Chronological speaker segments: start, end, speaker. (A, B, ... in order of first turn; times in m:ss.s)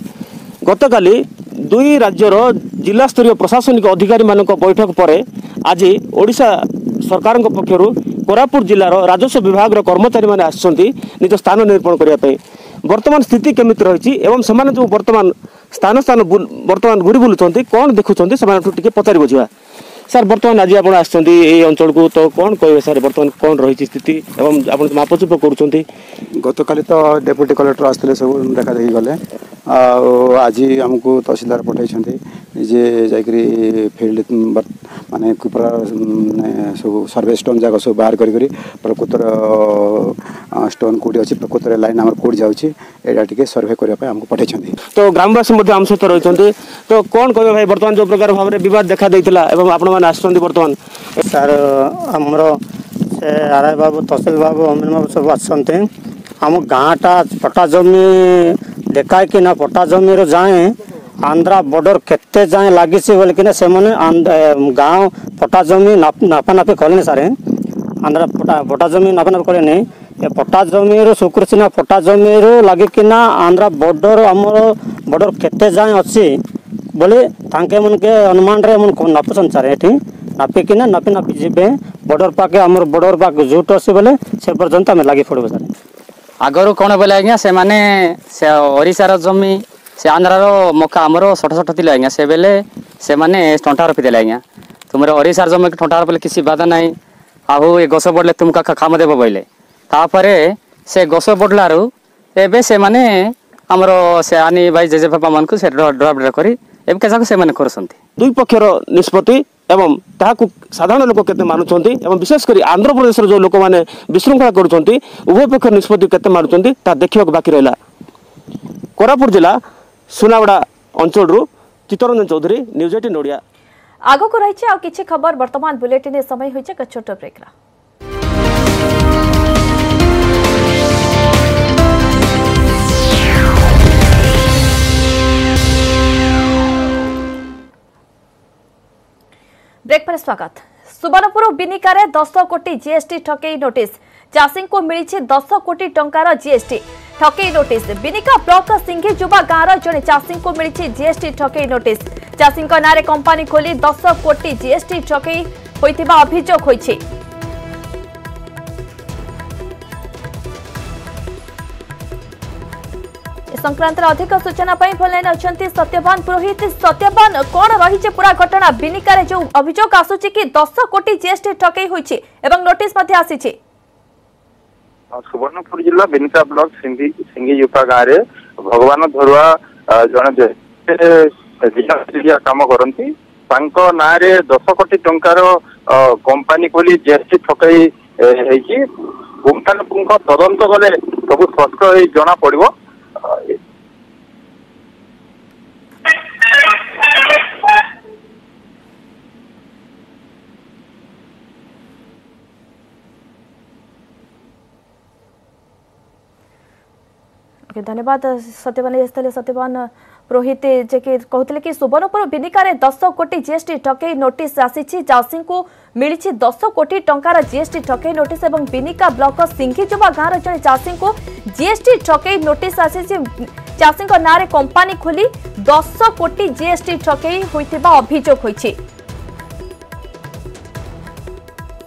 0:00.6-0:19.5 A
0:20.1-0:25.8 A
0:26.4-0:29.2 B
0:29.7-0:44.7 B
0:44.8-0:51.2 A
0:51.2-0:52.6 C
0:53.1-0:55.9 C
0:56.4-1:07.4 C
1:08.0-1:16.4 C
1:17.0-1:25.7 C
1:26.4-1:36.9 D
1:37.5-1:48.0 D
1:48.2-1:57.8 A
1:59.0-1:59.6 A
2:00.1-2:03.4 A
2:04.1-2:07.5 E
2:19.9-2:37.0 E
2:43.5-2:53.6 E
2:55.1-3:13.5 F
3:27.7-3:48.7 E